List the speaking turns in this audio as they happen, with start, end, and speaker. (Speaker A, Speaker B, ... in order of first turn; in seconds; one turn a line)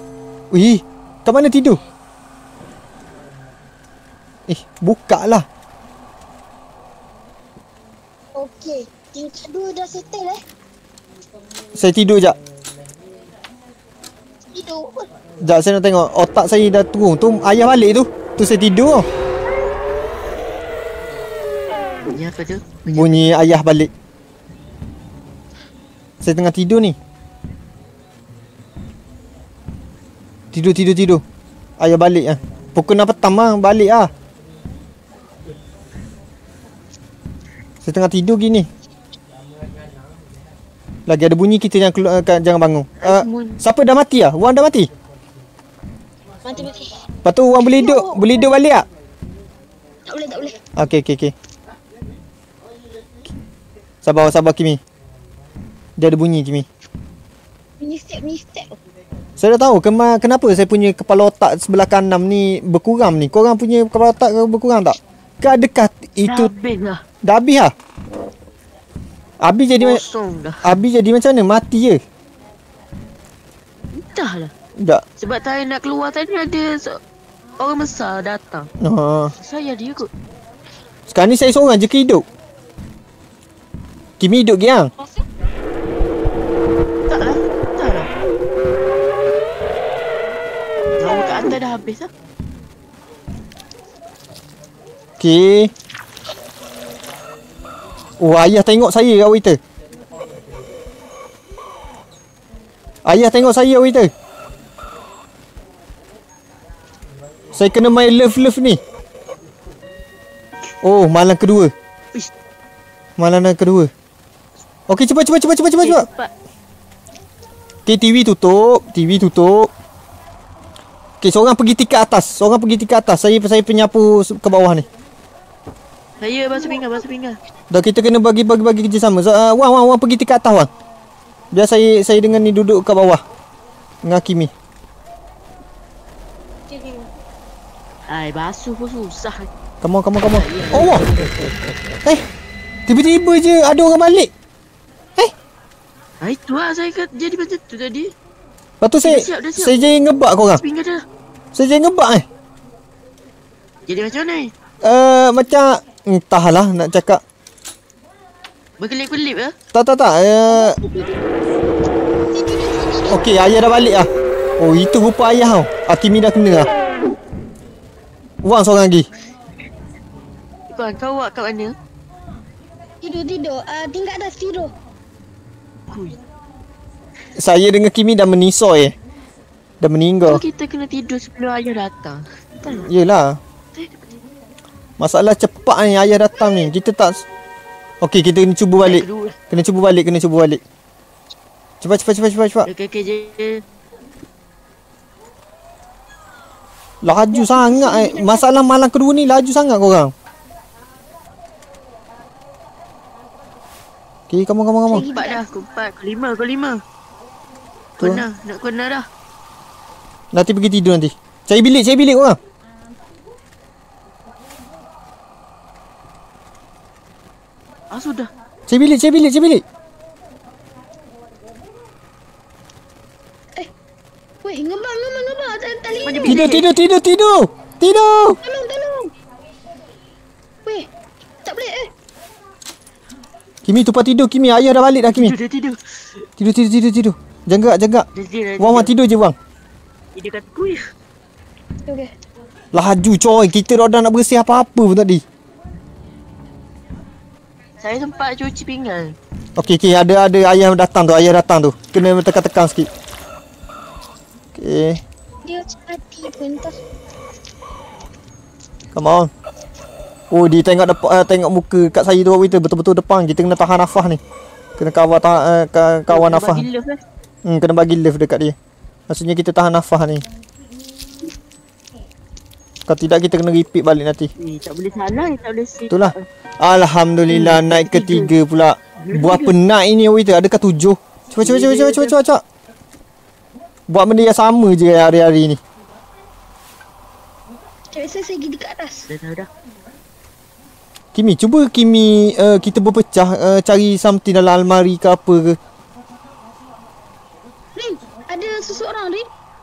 Speaker A: 0.5-1.8
Speaker A: 4.5-5.5
Speaker B: 8.3-10.4
Speaker A: 11.8-12.4
Speaker B: 14.5-15.1
Speaker A: 15.4-19.1
Speaker C: 22.1-23.0
Speaker A: 22.9-23.9
Speaker A: 26.2-27.0
Speaker A: 30.5-31.2
Speaker A: 31.8-34.1
Speaker A: 37.8-38.7
Speaker A: 41.1-44.9
Speaker C: 43.0-43.6
Speaker B: 46.4-47.0
Speaker A: 47.2-48.9
Speaker B: 47.6-48.5
Speaker B: 50.1-50.6
Speaker A: 50.8-51.3
Speaker A: 54.0-54.8
Speaker A: 56.0-56.7
Speaker B: 57.8-58.8
Speaker A: 59.4-66.5
Speaker C: 66.2-67.0
Speaker A: 67.2-67.7
Speaker A: 69.4-70.0
Speaker C: 69.8-70.7
Speaker A: 70.6-72.0
Speaker C: 73.9-74.5
Speaker A: 74.8-75.0
Speaker C: 75.2-77.0
Speaker C: 77.6-78.7
Speaker A: 78.8-79.3
Speaker C: 79.4-80.1
Speaker A: 81.1-82.2
Speaker A: 84.2-84.9
Speaker B: 85.0-85.2
Speaker C: 87.1-88.1
Speaker C: 91.0-92.1
Speaker B: 91.0-91.5
Speaker A: 95.2-95.7
Speaker A: 98.2-99.6
Speaker A: 103.0-104.1
Speaker A: 107.5-108.8
Speaker A: 110.8-111.7
Speaker A: 113.2-113.9
Speaker A: 114.9-116.1
Speaker C: 115.8-116.3
Speaker A: 117.9-119.7
Speaker A: 121.2-124.9
Speaker C: 126.2-127.4
Speaker A: 127.7-130.7
Speaker A: 131.5-133.2
Speaker A: 134.0-134.5
Speaker B: 136.7-137.1
Speaker C: 138.1-139.5
Speaker A: 139.8-141.1
Speaker C: 140.3-141.3
Speaker A: 142.9-144.3
Speaker C: 146.2-148.1
Speaker A: 148.8-150.6
Speaker C: 149.0-149.9
Speaker C: 150.4-151.0
Speaker A: 151.5-152.3
Speaker C: 153.9-154.5
Speaker A: 154.8-157.2
Speaker C: 158.8-159.5
Speaker A: 159.7-160.8
Speaker B: 160.5-161.2
Speaker B: 162.3-163.3
Speaker A: 163.1-166.7
Speaker A: 168.4-169.1
Speaker C: 170.7-171.8
Speaker B: 173.0-174.7
Speaker C: 175.9-176.2
Speaker A: 177.4-178.9
Speaker A: 179.8-180.4
Speaker C: 180.2-182.9
Speaker A: 182.7-183.4
Speaker A: 185.0-187.2
Speaker A: 188.0-190.6
Speaker C: 188.8-189.4
Speaker A: 191.8-192.7
Speaker C: 192.7-193.6
Speaker A: 197.0-200.1
Speaker B: 197.3-198.5
Speaker A: 204.3-205.1
Speaker B: 204.9-205.4
Speaker C: 205.1-206.8
Speaker C: 208.0-209.1
Speaker A: 210.3-212.4
Speaker C: 217.9-218.3
Speaker A: 218.7-219.6
Speaker B: 224.4-226.4
Speaker C: 226.1-226.7
Speaker A: 226.2-228.4
Speaker B: 228.4-229.1
Speaker B: 231.4-231.9
Speaker A: 233.7-235.3
Speaker C: 235.1-236.2
Speaker A: 236.4-238.1
Speaker C: 238.1-238.9
Speaker A: 238.6-239.4
Speaker C: 240.2-240.8
Speaker A: 242.7-245.2
Speaker C: 247.8-249.2
Speaker A: 249.6-252.9
Speaker A: 254.6-255.0
Speaker B: 255.4-256.8
Speaker A: 258.9-259.3
Speaker A: 260.3-264.2
Speaker A: 264.8-266.6
Speaker C: 266.1-267.0
Speaker A: 267.4-268.6
Speaker A: 269.1-270.3
Speaker A: 272.9-274.3
Speaker C: 274.4-276.2
Speaker A: 275.9-282.4
Speaker C: 277.3-278.3
Speaker C: 279.0-279.6
Speaker C: 281.4-282.2
Speaker A: 283.9-285.6
Speaker B: 287.9-289.1
Speaker C: 289.1-289.5
Speaker A: 291.1-295.6
Speaker B: 297.8-299.3